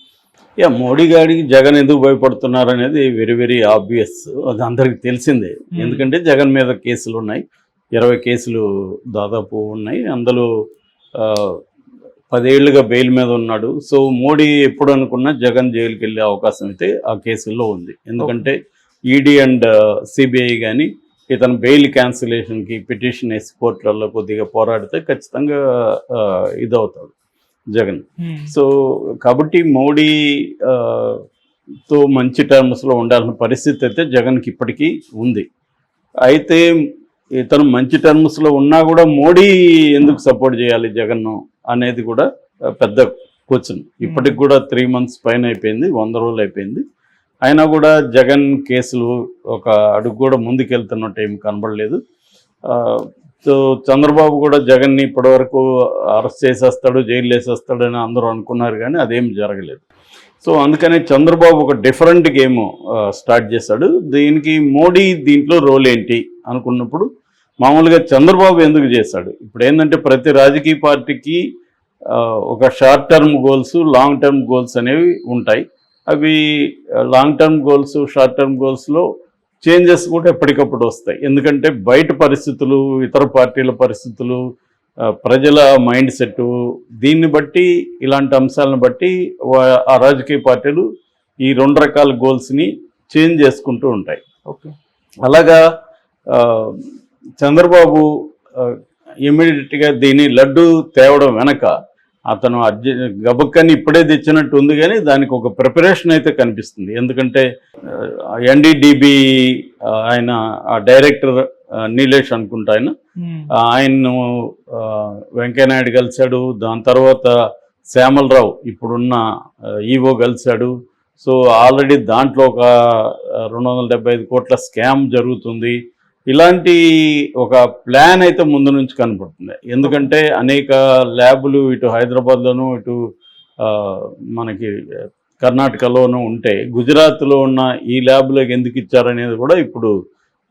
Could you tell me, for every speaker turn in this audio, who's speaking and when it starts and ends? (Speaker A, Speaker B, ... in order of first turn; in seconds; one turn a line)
Speaker A: 0.6-7.4
Speaker B: 5.8-6.0
Speaker A: 8.0-10.5
Speaker A: 11.2-11.6
Speaker A: 12.3-18.6
Speaker B: 18.2-18.4
Speaker A: 19.1-27.1
Speaker A: 27.7-28.7
Speaker B: 28.2-28.5
Speaker A: 29.2-31.2
Speaker A: 31.9-35.5
Speaker A: 36.3-36.7
Speaker A: 37.4-42.3
Speaker A: 42.8-46.8
Speaker B: 44.0-44.4
Speaker A: 47.5-52.0
Speaker A: 52.7-59.9
Speaker A: 60.4-67.1
Speaker A: 67.6-71.4
Speaker A: 72.1-76.4
Speaker A: 77.1-79.0
Speaker A: 79.6-84.4
Speaker A: 85.2-86.5
Speaker A: 87.0-90.8
Speaker A: 91.5-94.2
Speaker B: 94.5-94.7
Speaker A: 95.2-95.6
Speaker A: 96.3-96.8
Speaker A: 97.4-98.1
Speaker A: 98.6-101.7
Speaker A: 102.3-112.9
Speaker B: 113.2-113.5
Speaker A: 113.6-117.3
Speaker A: 117.9-119.2
Speaker A: 119.9-125.8
Speaker A: 126.3-126.8
Speaker A: 127.4-133.0
Speaker A: 133.6-134.7
Speaker A: 135.4-139.9